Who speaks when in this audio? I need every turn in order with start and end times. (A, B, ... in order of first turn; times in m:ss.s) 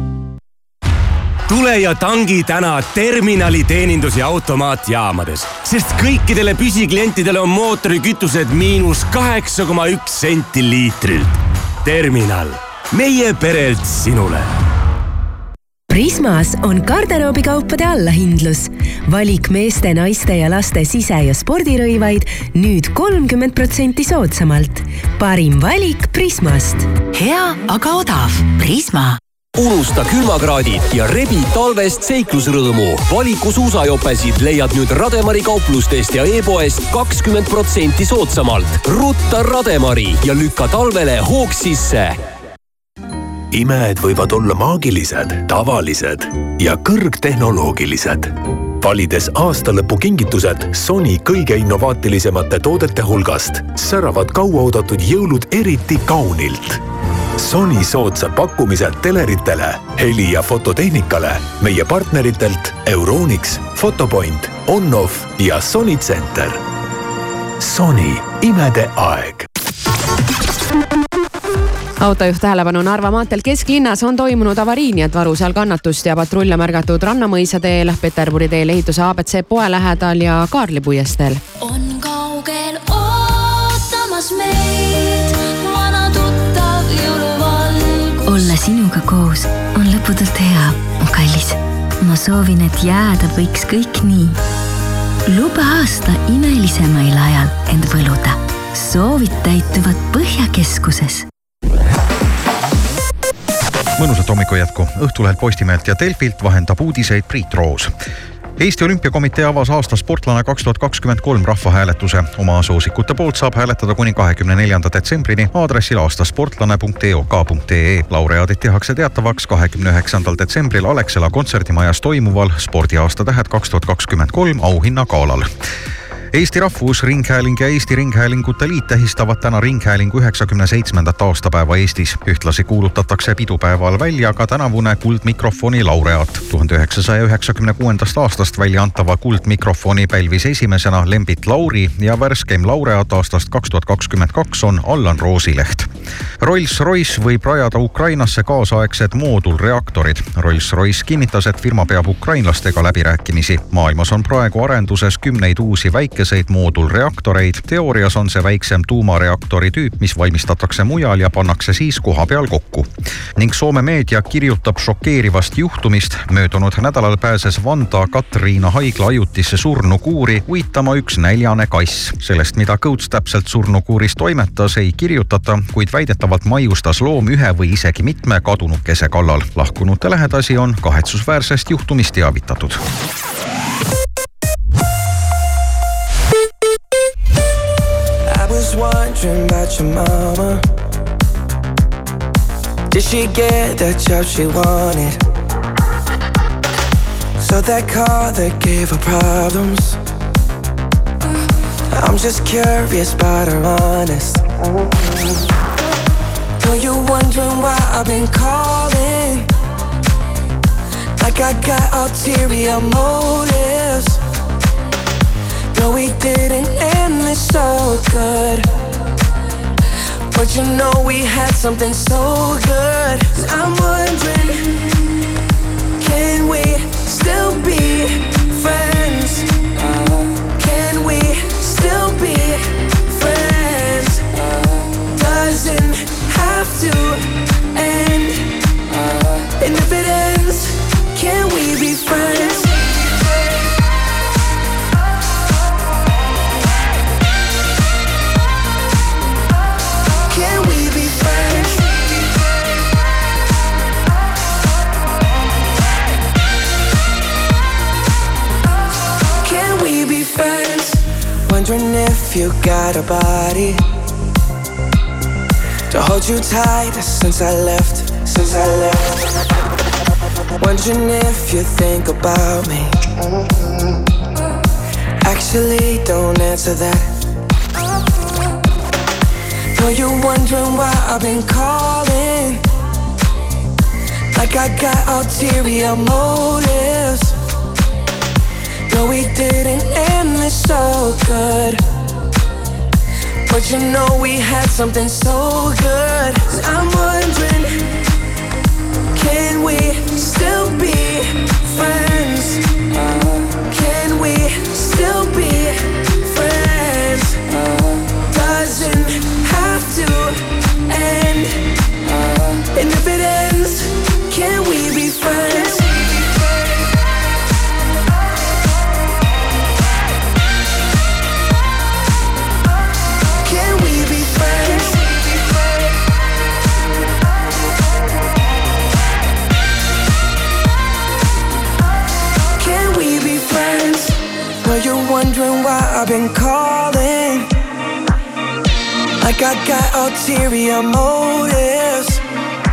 0:01.5-0:05.6 A
0:02.3-0:04.5 B
0:05.5-0:11.3 B
0:06.5-0:07.7 A
0:11.9-0:12.5 A
0:13.0-0:13.6 A
0:13.2-0:14.3 B
0:15.9-0:26.9 C
0:27.2-0:29.2 D
0:29.6-0:42.2 A
0:43.5-0:56.8 E
0:57.4-1:06.6 E
1:07.6-1:09.5 E
1:12.0-1:21.4 F
1:21.6-1:27.9 G
1:28.3-1:34.4 D
1:35.3-1:41.3 D
1:44.0-1:47.9 H
1:48.6-2:05.5 H
2:06.3-2:25.9 H
2:26.4-3:02.8 H
3:08.3-3:10.6 I
3:12.9-3:15.2 I
3:17.4-3:20.0 I
3:21.9-3:24.4 I
3:26.6-3:29.5 I
3:31.2-3:34.2 I
3:35.7-3:38.7 I
3:40.3-3:44.8 I
3:46.0-3:49.5 I
3:50.6-3:54.2 I
3:55.1-3:58.5 I
3:59.6-4:02.8 I
4:10.3-4:11.9 I
4:19.4-4:23.8 I
4:25.9-4:29.3 I
4:30.6-4:32.9 I
4:35.2-4:37.1 I
4:39.8-4:42.6 I
4:44.3-4:47.4 I
4:48.9-4:51.8 I
4:53.5-4:57.8 I
4:59.1-5:02.6 I
5:03.7-5:07.4 I
5:08.3-5:11.6 I
5:12.7-5:15.9 I
5:23.4-5:25.1 I
5:32.6-5:37.5 I
5:39.2-5:42.2 I